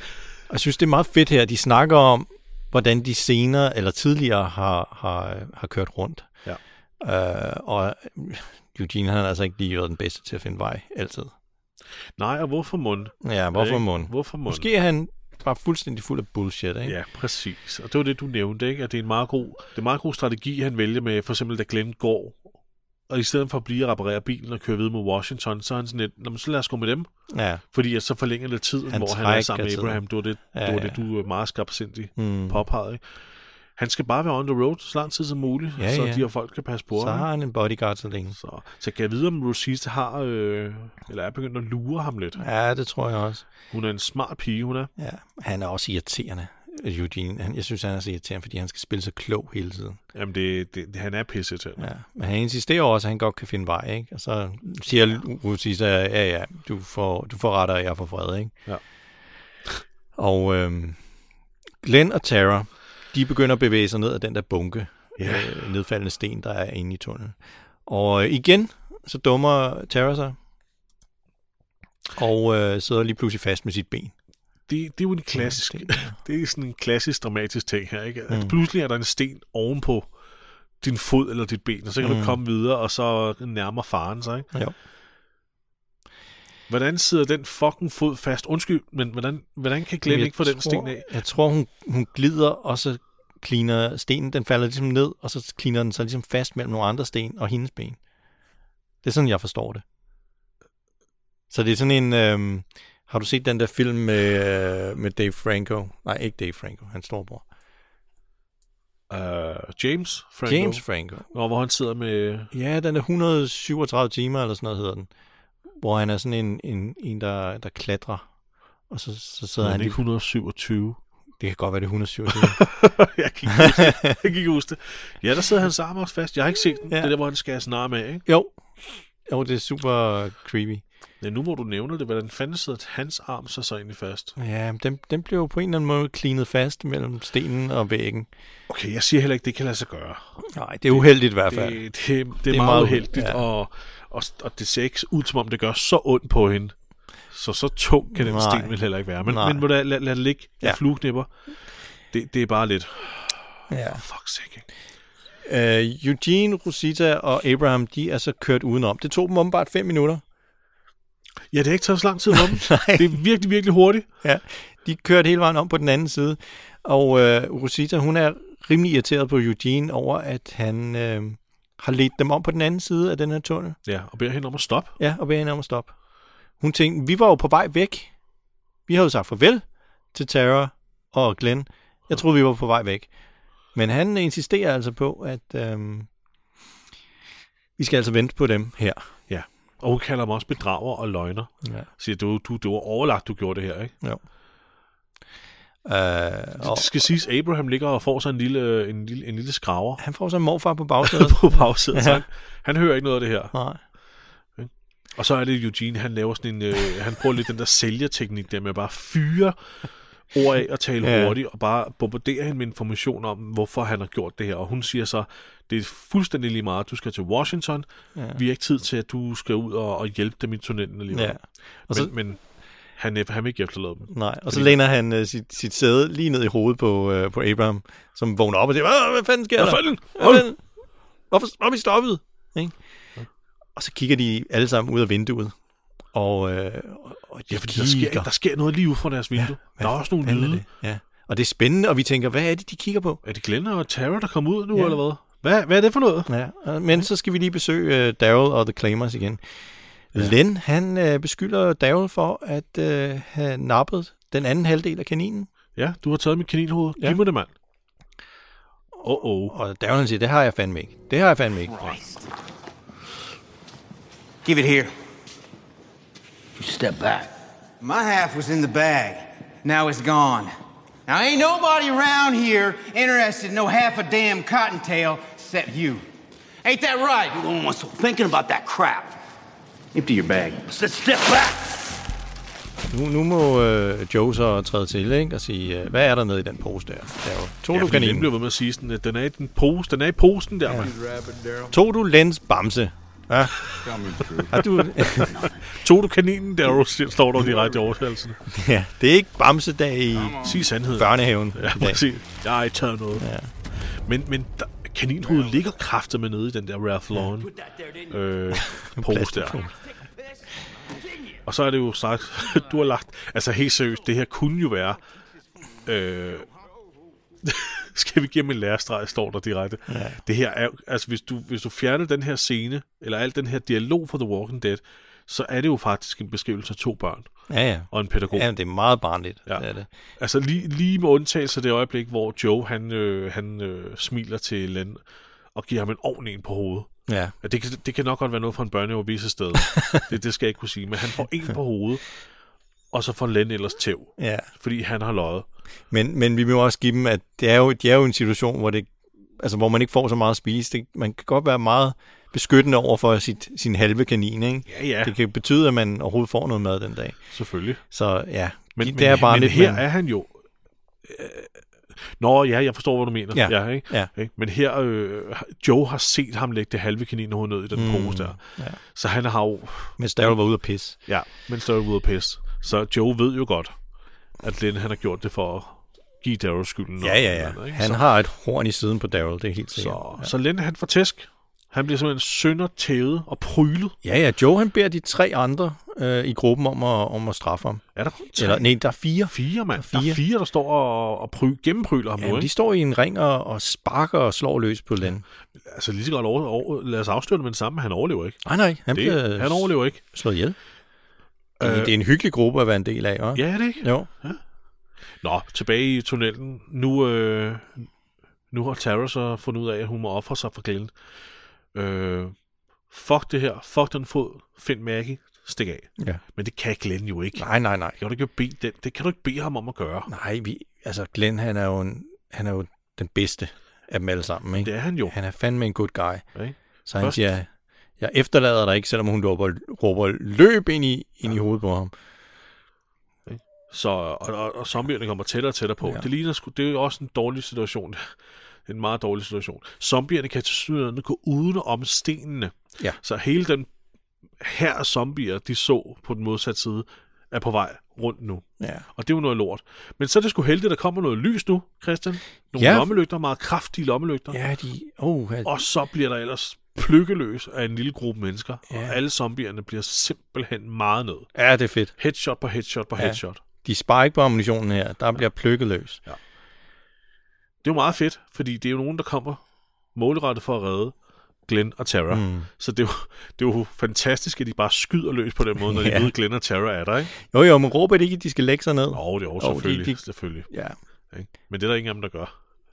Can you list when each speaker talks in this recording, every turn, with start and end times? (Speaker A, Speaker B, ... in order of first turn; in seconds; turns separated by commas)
Speaker A: 0.5-6.3, Speaker A: 7.0-11.3, Speaker B: 12.2-14.7, Speaker A: 13.2-17.0, Speaker B: 16.9-22.5, Speaker B: 23.1-27.1, Speaker A: 27.3-27.6, Speaker B: 27.7-33.0, Speaker A: 28.9-31.0, Speaker A: 32.2-32.6, Speaker B: 33.8-37.3, Speaker A: 35.8-36.3, Speaker A: 36.9-38.4, Speaker B: 38.4-42.4, Speaker A: 42.4-43.5, Speaker B: 43.7-44.9, Speaker A: 45.0-50.0, Speaker B: 50.1-51.9, Speaker A: 51.8-58.5, Speaker A: 60.2-61.0, Speaker A: 61.8-70.4, Speaker B: 65.2-65.6, Speaker A: 72.2-74.1, Speaker B: 74.7-80.1, Speaker A: 75.3-76.2, Speaker B: 80.8-84.5, Speaker A: 82.0-82.4, Speaker B: 86.7-91.1, Speaker A: 90.1-98.0, Speaker A: 99.0-99.8, Speaker A: 101.5-107.4, Speaker B: 109.1-112.5, Speaker A: 110.5-111.3, Speaker A: 112.5-115.1, Speaker A: 115.8-118.3, Speaker A: 118.9-120.0, Speaker B: 119.6-121.0, Speaker A: 121.4-122.6, Speaker B: 122.3-128.2, Speaker A: 123.5-124.2, Speaker A: 128.3-128.6, Speaker A: 129.3-130.8, Speaker B: 131.2-134.4, Speaker A: 134.4-138.3, Speaker B: 138.7-146.8, Speaker A: 140.4-141.8, Speaker A: 142.5-143.4, Speaker B: 147.3-151.3, Speaker A: 148.2-149.7, Speaker B: 152.1-154.7, Speaker A: 153.7-154.0, Speaker A: 155.4-160.2, Speaker B: 161.5-164.1, Speaker A: 162.3-163.2, Speaker A: 164.2-173.8, Speaker B: 173.9-175.0, Speaker A: 175.0-175.9, Speaker A: 176.6-178.1, Speaker A: 178.9-183.1, Speaker A: 183.8-186.1, Speaker A: 187.8-189.0, Speaker B: 189.3-193.9, Speaker A: 195.8-196.9, Speaker B: 196.6-200.0, Speaker A: 200.0-202.2, Speaker B: 201.0-203.5, Speaker A: 203.5-203.8, Speaker B: 204.6-209.6, Speaker B: 210.3-221.4, Speaker A: 211.0-211.4, Speaker A: 218.2-218.4, Speaker A: 221.1-222.1, Speaker B: 221.9-222.4, Speaker B: 223.0-224.8, Speaker A: 224.1-230.6, Speaker B: 229.6-230.5, Speaker A: 231.3-232.8, Speaker A: 233.8-235.6, Speaker A: 236.1-238.3, Speaker B: 237.5-240.6, Speaker A: 239.4-243.2, Speaker B: 243.2-246.3, Speaker A: 246.3-249.6, Speaker A: 250.1-255.5, Speaker B: 255.8-257.5, Speaker B: 259.0-259.6, Speaker A: 259.5-261.8, Speaker C: 264.4-264.9, Speaker D: 266.6-267.3, Speaker C: 267.8-270.5, Speaker C: 271.1-276.0, Speaker C: 276.6-277.4, Speaker D: 277.3-279.2, Speaker C: 279.9-280.6, Speaker D: 280.6-282.0, Speaker A: 282.9-288.3, Speaker B: 287.7-290.9, Speaker A: 290.7-290.9, Speaker D: 290.9-291.6, Speaker A: 291.7-293.7, Speaker B: 293.6-298.4, Speaker D: 294.1-294.4, Speaker A: 294.4-295.4, Speaker A: 298.5-302.1, Speaker B: 300.4-307.5, Speaker A: 303.2-303.5, Speaker B: 308.1-309.6, Speaker A: 308.5-309.7, Speaker B: 311.4-315.0, Speaker B: 315.8-316.5, Speaker B: 317.4-327.3, Speaker A: 319.9-320.2, Speaker A: 327.5-329.9, Speaker B: 327.9-328.5, Speaker B: 330.2-335.0, Speaker B: 335.6-336.9, Speaker A: 337.1-337.3, Speaker B: 337.4-342.2, Speaker A: 339.6-340.0, Speaker B: 342.9-345.5, Speaker A: 344.2-344.5, Speaker A: 345.9-357.2, Speaker B: 354.7-355.2, Speaker B: 357.3-357.8, Speaker A: 357.8-359.8, Speaker B: 358.8-360.3, Speaker B: 361.0-370.3, Speaker A: 363.3-364.1, Speaker A: 367.7-368.8, Speaker A: 370.0-371.0, Speaker B: 371.1-373.8, Speaker B: 374.4-378.0, Speaker A: 377.0-380.3, Speaker B: 379.8-384.0, Speaker A: 384.0-387.8, Speaker B: 387.9-388.6, Speaker A: 388.4-390.2, Speaker B: 389.3-392.5, Speaker A: 392.2-395.2, Speaker B: 395.6-398.4, Speaker A: 398.4-400.6, Speaker B: 398.9-400.0, Speaker B: 401.6-401.9, Speaker A: 401.6-404.1, Speaker B: 403.4-404.4, Speaker B: 405.2-407.9, Speaker B: 408.5-410.9, Speaker B: 411.7-412.3, Speaker B: 412.9-420.1, Speaker A: 417.4-418.0, Speaker A: 420.1-426.3, Speaker B: 424.6-425.1, Speaker B: 426.4-427.2, Speaker A: 426.9-427.5, Speaker A: 428.0-431.9, Speaker B: 433.3-438.1, Speaker B: 438.7-443.7, Speaker B: 444.4-454.4, Speaker A: 448.6-448.9, Speaker A: 452.6-452.9, Speaker A: 454.3-455.6, Speaker B: 455.4-461.3, Speaker A: 458.7-459.0, Speaker A: 461.4-461.9, Speaker B: 462.0-463.4, Speaker A: 463.0-466.0, Speaker B: 467.6-469.4, Speaker B: 469.9-470.9, Speaker B: 471.5-477.1, Speaker A: 472.1-472.5, Speaker A: 475.6-476.1, Speaker A: 477.2-480.8, Speaker B: 478.9-480.5, Speaker B: 481.1-482.3